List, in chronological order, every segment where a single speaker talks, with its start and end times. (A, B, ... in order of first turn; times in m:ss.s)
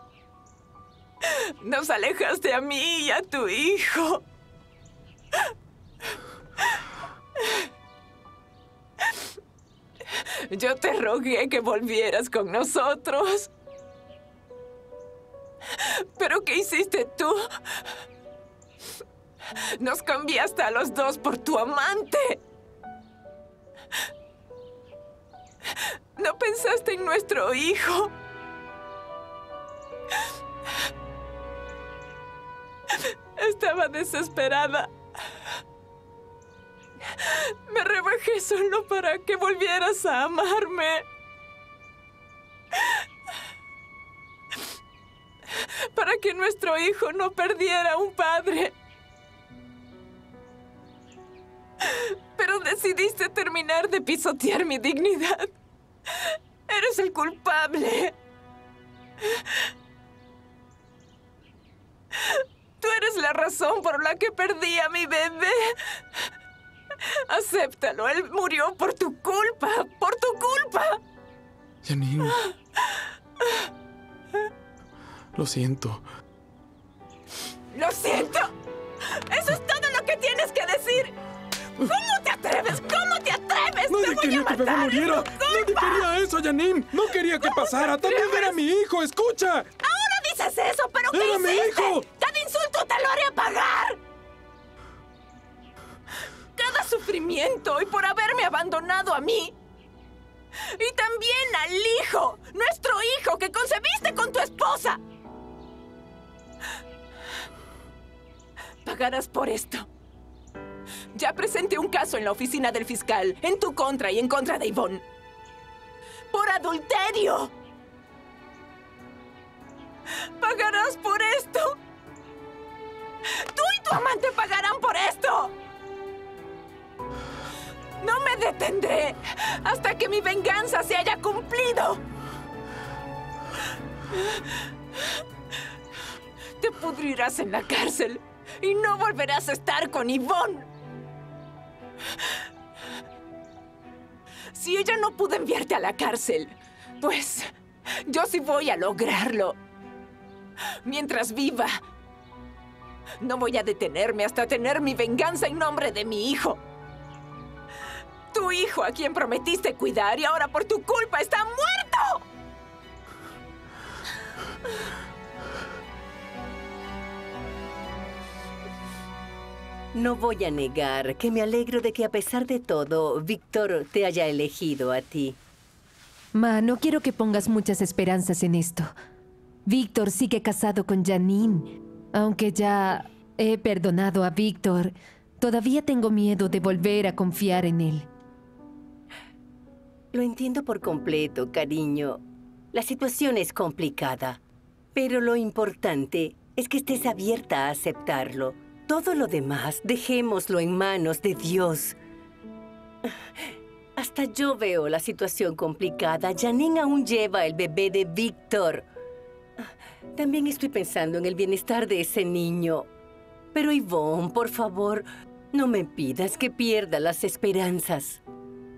0:01.6-0:04.2 A
0:10.5-0:13.5 A
0:16.2-0:17.5 A
0:19.8-0:22.4 A
0:26.2-0:28.1 A
0:33.4-0:34.9 A
0:37.2-0:41.0 A
0:45.9-0:48.7 A
0:52.4-0:55.5 A
0:56.7-0:58.1 A
1:02.3-1:05.8 A
1:07.3-1:11.0 A
1:11.8-1:12.4 B
1:15.4-1:16.0 B
1:17.7-1:18.5 A
1:19.3-1:21.2 A
1:21.8-1:26.1 A
1:23.9-1:29.7 B
1:27.0-1:28.7 A
1:29.8-1:34.0 A
1:31.1-1:32.0 B
1:36.6-1:39.6 A
1:40.8-1:45.0 A
1:48.8-1:49.9 A
1:51.2-1:55.0 A
1:56.3-1:57.5 A
2:00.4-2:01.8 A
2:03.5-2:05.5 A
2:08.0-2:12.0 A
2:14.1-2:14.4 A
2:16.6-2:20.7 A
2:24.5-2:27.5 A
2:28.0-2:29.6 A
2:30.8-2:31.8 A
2:33.2-2:36.6 A
2:38.3-2:42.2 A
2:49.9-2:55.4 C
2:56.3-2:58.9 D
2:59.7-3:08.1 D
3:10.1-3:14.4 C
3:15.0-3:22.0 C
3:24.0-3:28.9 C
3:30.2-3:32.9 C
3:33.5-3:38.2 C